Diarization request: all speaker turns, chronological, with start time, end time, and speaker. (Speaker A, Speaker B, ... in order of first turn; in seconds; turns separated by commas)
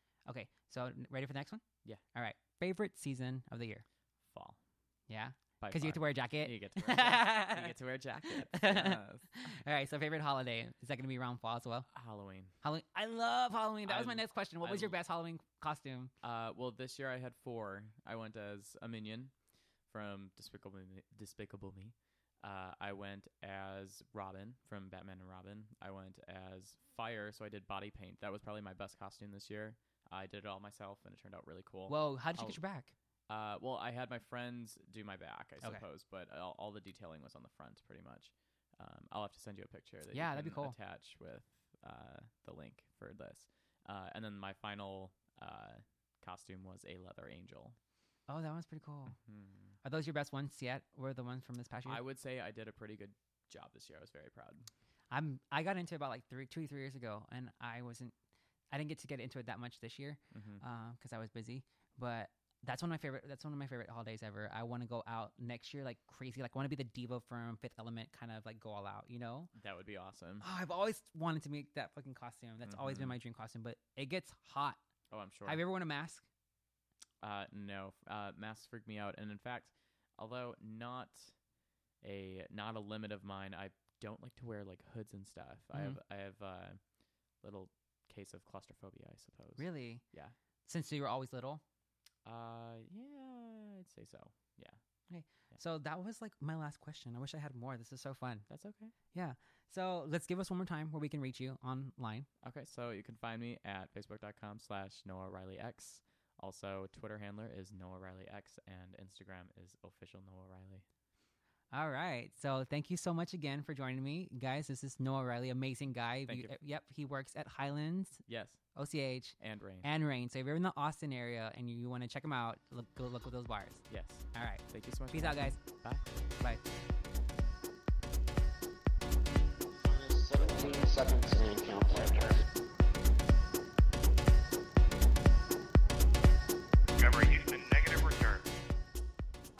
Speaker A: 0.3-1.6, Speaker A: 2.1-3.8, Speaker B: 4.3-4.6, Speaker A: 5.1-11.9, Speaker B: 5.6-9.2, Speaker B: 11.9-12.5, Speaker A: 12.6-16.1, Speaker B: 13.8-15.0, Speaker B: 16.2-19.3, Speaker B: 19.9-32.6, Speaker A: 31.9-32.9, Speaker B: 33.3-47.8, Speaker A: 40.1-40.8, Speaker A: 48.3-49.2, Speaker B: 49.2-49.7, Speaker A: 49.8-52.0, Speaker B: 51.8-54.7, Speaker A: 55.1-58.1, Speaker A: 58.7-69.5, Speaker B: 60.3-60.6, Speaker B: 69.5-70.4, Speaker A: 70.4-74.8, Speaker B: 72.6-73.2, Speaker B: 75.1-75.6, Speaker A: 75.5-76.2, Speaker B: 77.2-81.3, Speaker B: 82.0-86.8, Speaker B: 87.4-90.3, Speaker A: 89.6-90.0, Speaker A: 90.7-91.6, Speaker B: 92.2-94.8, Speaker A: 95.1-98.5, Speaker B: 98.5-98.9, Speaker A: 99.1-102.3, Speaker B: 102.4-110.8, Speaker A: 111.7-118.2, Speaker B: 116.2-116.5, Speaker B: 118.3-118.6, Speaker A: 118.7-125.6, Speaker B: 119.4-119.9, Speaker B: 123.9-126.0, Speaker C: 129.8-132.4, Speaker B: 137.0-138.4